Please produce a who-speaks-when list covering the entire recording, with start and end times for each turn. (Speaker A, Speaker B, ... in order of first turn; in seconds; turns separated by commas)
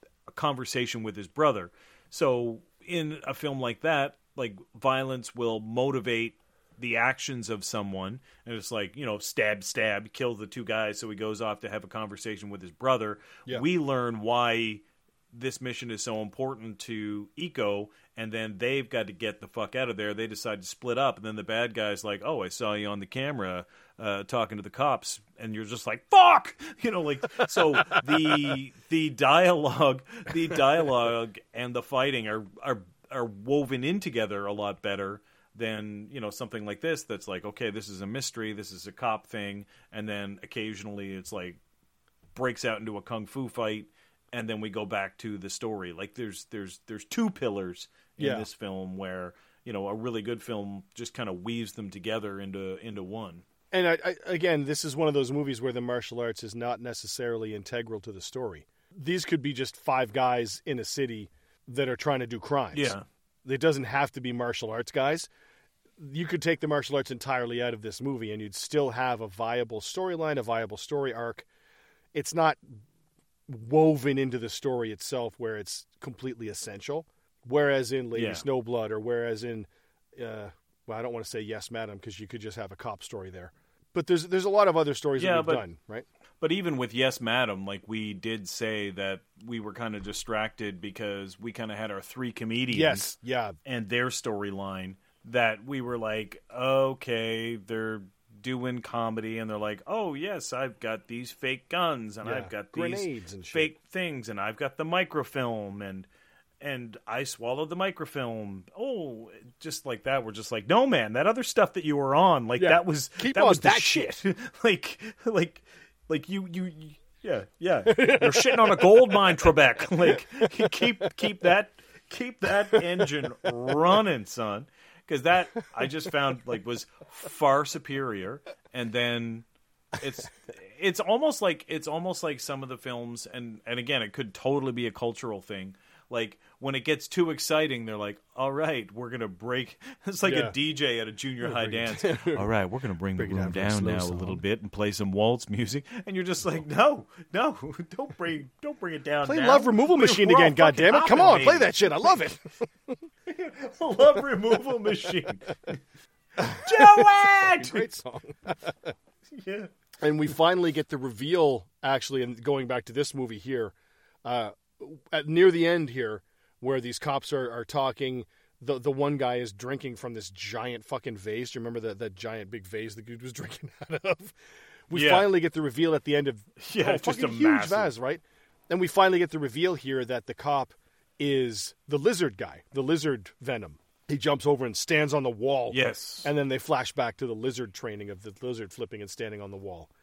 Speaker A: 0.3-41.6, Speaker A: 42.3-53.4, Speaker B: 48.2-48.5, Speaker B: 53.7-65.3, Speaker A: 62.7-63.0, Speaker B: 66.0-71.5, Speaker B: 72.1-72.8, Speaker B: 73.5-86.0, Speaker A: 78.1-78.4, Speaker A: 85.2-85.6, Speaker A: 86.4-93.1, Speaker B: 92.7-93.6, Speaker A: 93.6-106.1, Speaker B: 102.2-103.7, Speaker A: 106.6-151.7, Speaker B: 112.6-114.2, Speaker B: 117.8-119.5, Speaker B: 120.0-121.1, Speaker B: 122.7-123.2, Speaker B: 140.2-140.6, Speaker B: 141.4-142.4, Speaker B: 143.2-144.4, Speaker B: 149.2-152.9, Speaker A: 153.2-155.8, Speaker A: 156.4-157.9, Speaker B: 156.4-158.9, Speaker A: 159.3-159.7, Speaker B: 160.0-174.4, Speaker B: 174.9-189.9, Speaker A: 174.9-175.3, Speaker A: 176.6-177.9, Speaker A: 185.7-186.3